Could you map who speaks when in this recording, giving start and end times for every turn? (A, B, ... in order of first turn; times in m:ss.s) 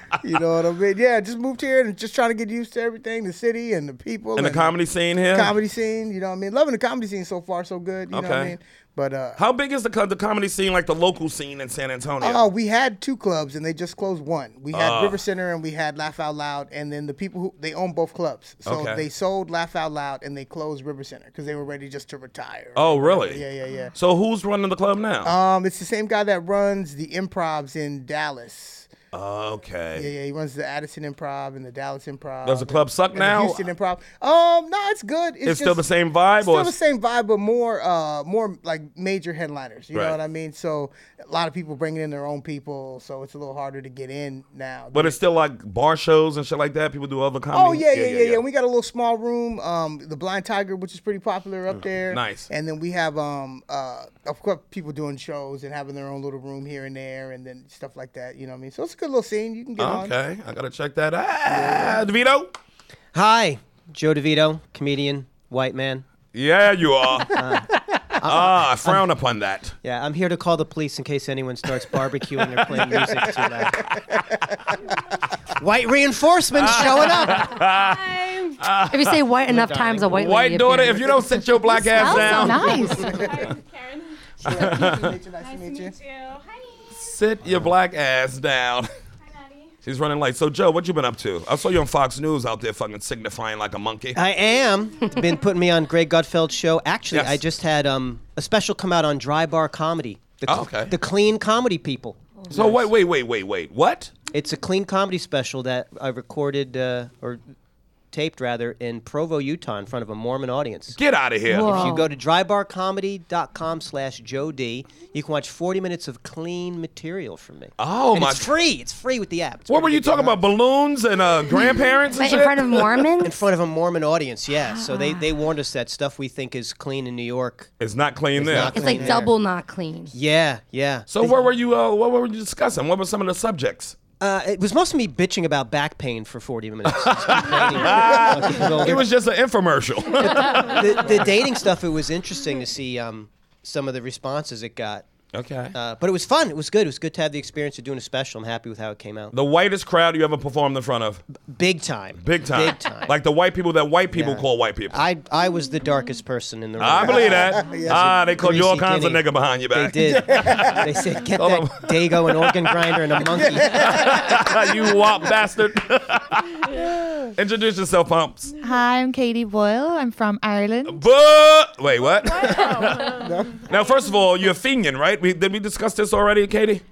0:00.2-0:04.8 A
0:04.4-0:05.5 B
0:05.3-0:09.4 A
0:08.1-0:08.5 B
0:09.4-0:12.5 B
0:12.2-0:23.9 A
0:14.7-0:15.2 B
0:18.6-0:19.0 B
0:22.8-0:23.4 B
0:24.0-0:25.3 B
0:25.2-0:28.9 A
0:29.1-0:30.1 B
0:29.9-0:35.8 A
0:32.4-0:33.6 B
0:35.4-0:36.7 B
0:36.4-0:45.2 A
0:44.9-0:48.4 B
0:47.5-1:00.1 A
0:52.1-0:52.5 B
0:59.8-1:02.5 B
1:01.5-1:02.0 A
1:03.1-1:06.0 C
1:06.3-1:09.7 B
1:07.3-1:09.1 C
1:09.8-1:13.8 C
1:12.5-1:13.1 B
1:13.9-1:14.4 B
1:15.6-1:17.5 C
1:16.6-1:18.0 B
1:17.4-1:18.6 D
1:18.6-1:19.2 B
1:18.9-1:22.5 E
1:19.5-1:20.3 C
1:20.0-1:23.5 B
1:21.9-1:23.2 F
1:22.7-1:24.9 D
1:24.4-1:25.2 B
1:24.4-1:25.9 A
1:25.4-1:26.9 D
1:26.9-1:28.9 B
1:29.3-1:29.7 D
1:29.8-1:34.2 B
1:34.1-1:42.9 C
1:37.1-1:37.4 B
1:40.5-1:40.9 B
1:42.5-1:44.1 B
1:44.3-1:47.4 C
1:48.1-1:51.0 C
1:50.9-1:51.8 B
1:51.5-1:52.1 E
1:51.5-2:00.4 C
1:57.8-1:58.5 B
1:59.7-2:03.0 B
2:02.1-2:03.4 E
2:03.2-2:07.7 C
2:04.7-2:05.3 F
2:07.8-2:09.0 B
2:08.4-2:09.3 C
2:08.5-2:10.1 E
2:08.6-2:09.3 A
2:10.1-2:11.5 C
2:11.1-2:14.0 B
2:14.2-2:19.1 C
2:16.9-2:21.4 B
2:20.3-2:25.0 C
2:25.3-2:25.7 B
2:25.7-2:29.3 C
2:29.3-2:31.2 B
2:31.4-2:33.2 C
2:32.2-2:35.0 B
2:34.1-2:44.1 C
2:36.8-2:46.8 B
2:37.0-2:38.2 A
2:40.3-2:40.8 A
2:43.5-2:44.0 A
2:46.8-2:47.3 A
2:47.3-2:48.5 B
2:48.6-2:51.0 F
2:50.9-2:56.8 B
2:52.2-2:53.7 D
2:53.2-2:53.6 A